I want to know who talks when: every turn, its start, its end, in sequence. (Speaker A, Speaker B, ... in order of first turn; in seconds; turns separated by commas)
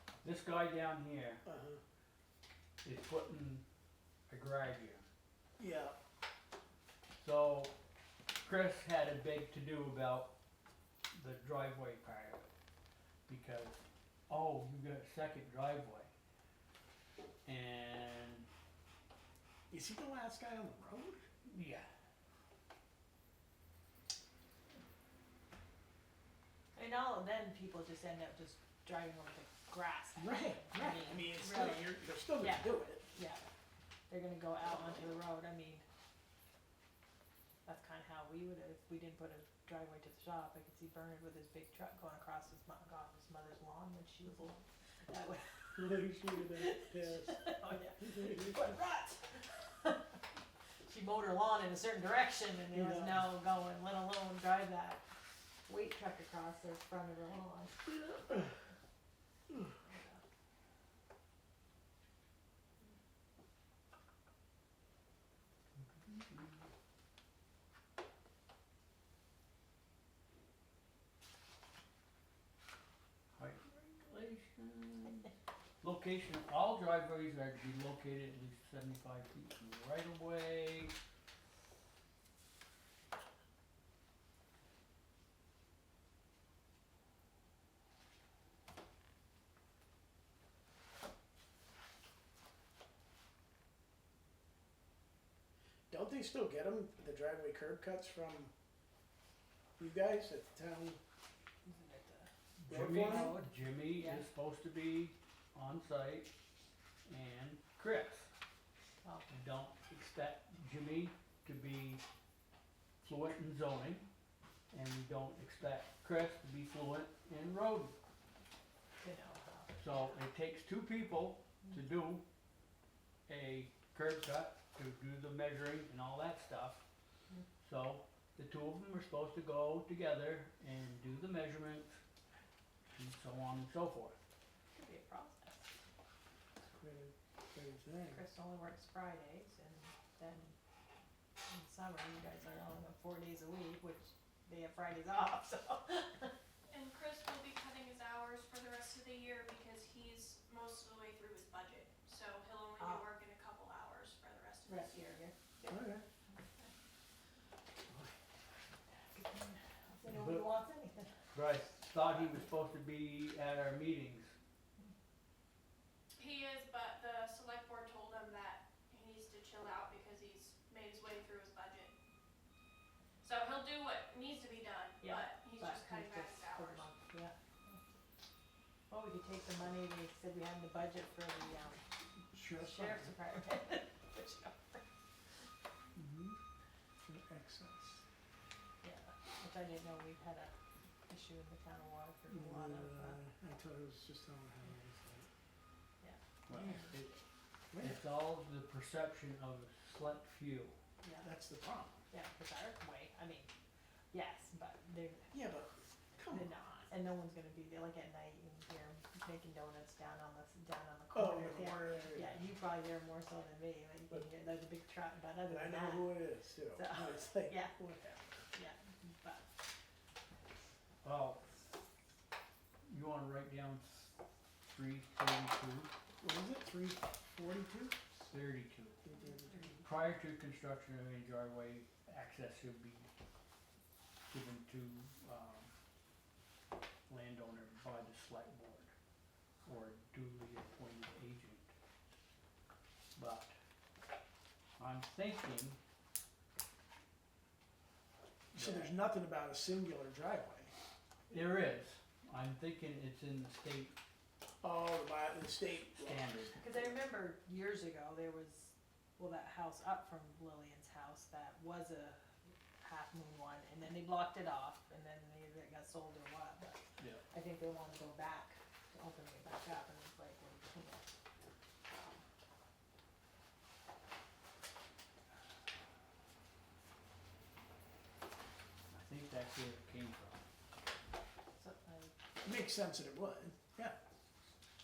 Speaker A: 0.2-1.4, Speaker B: 1.4-1.8, Speaker A: 2.8-3.6, Speaker A: 4.3-5.1, Speaker B: 5.6-6.0, Speaker A: 7.2-7.7, Speaker A: 8.4-10.3, Speaker A: 11.1-12.5, Speaker A: 13.3-16.1, Speaker A: 17.5-18.5, Speaker B: 19.7-21.2, Speaker A: 21.5-21.9, Speaker C: 26.7-33.5, Speaker B: 30.2-33.1, Speaker C: 34.1-35.8, Speaker C: 37.6-50.0, Speaker B: 45.8-48.6, Speaker C: 50.9-55.0, Speaker B: 52.7-53.2, Speaker C: 55.7-58.2, Speaker C: 59.8-60.2, Speaker A: 65.8-66.7, Speaker A: 73.3-75.3, Speaker A: 75.8-80.9, Speaker B: 95.9-98.5, Speaker B: 99.8-101.0, Speaker C: 101.7-102.3, Speaker A: 102.6-106.3, Speaker B: 102.7-103.4, Speaker C: 102.8-104.3, Speaker A: 107.1-108.3, Speaker C: 109.0-109.3, Speaker A: 109.3-112.0, Speaker A: 113.0-114.1, Speaker A: 114.7-117.9, Speaker C: 119.0-120.0, Speaker A: 119.8-122.2, Speaker A: 123.3-126.8, Speaker A: 127.6-132.0, Speaker A: 132.9-134.2, Speaker C: 134.7-135.8, Speaker B: 136.6-138.2, Speaker C: 138.1-140.6, Speaker C: 141.5-146.3, Speaker D: 146.7-155.2, Speaker C: 154.7-156.7, Speaker B: 155.7-156.0, Speaker C: 159.0-161.2, Speaker A: 160.1-160.4, Speaker A: 161.3-164.3, Speaker C: 162.0-162.3, Speaker D: 166.2-171.9, Speaker D: 173.2-176.8, Speaker C: 175.0-177.8, Speaker C: 178.9-181.8, Speaker B: 182.3-183.1, Speaker C: 182.5-184.9, Speaker B: 185.9-186.4, Speaker B: 187.1-188.0, Speaker C: 188.8-190.5, Speaker C: 191.1-193.2, Speaker B: 192.3-195.3, Speaker C: 196.0-197.0, Speaker A: 196.5-197.2, Speaker B: 197.7-198.0, Speaker A: 197.8-200.8, Speaker C: 201.0-201.3, Speaker B: 201.2-202.0, Speaker C: 202.1-203.5, Speaker C: 204.1-205.3, Speaker B: 205.3-206.9, Speaker C: 206.3-216.2, Speaker B: 211.1-212.4, Speaker B: 215.5-218.5, Speaker C: 216.7-217.8, Speaker C: 218.5-219.5, Speaker A: 221.0-221.5, Speaker A: 222.9-224.1, Speaker A: 224.6-225.9, Speaker B: 226.2-228.1, Speaker A: 228.3-229.0, Speaker B: 229.0-229.8, Speaker C: 229.1-229.8, Speaker A: 229.8-233.1, Speaker A: 234.3-235.7, Speaker A: 237.1-238.9, Speaker A: 239.7-241.7, Speaker A: 243.2-243.5, Speaker A: 244.8-245.8, Speaker B: 248.5-250.7, Speaker A: 248.6-248.9, Speaker A: 251.3-253.9, Speaker B: 254.6-257.0, Speaker A: 256.0-256.6, Speaker C: 256.6-262.2, Speaker C: 262.8-266.8, Speaker A: 267.0-267.2, Speaker C: 267.3-271.1, Speaker A: 278.9-280.4, Speaker C: 281.6-282.1, Speaker B: 282.4-284.0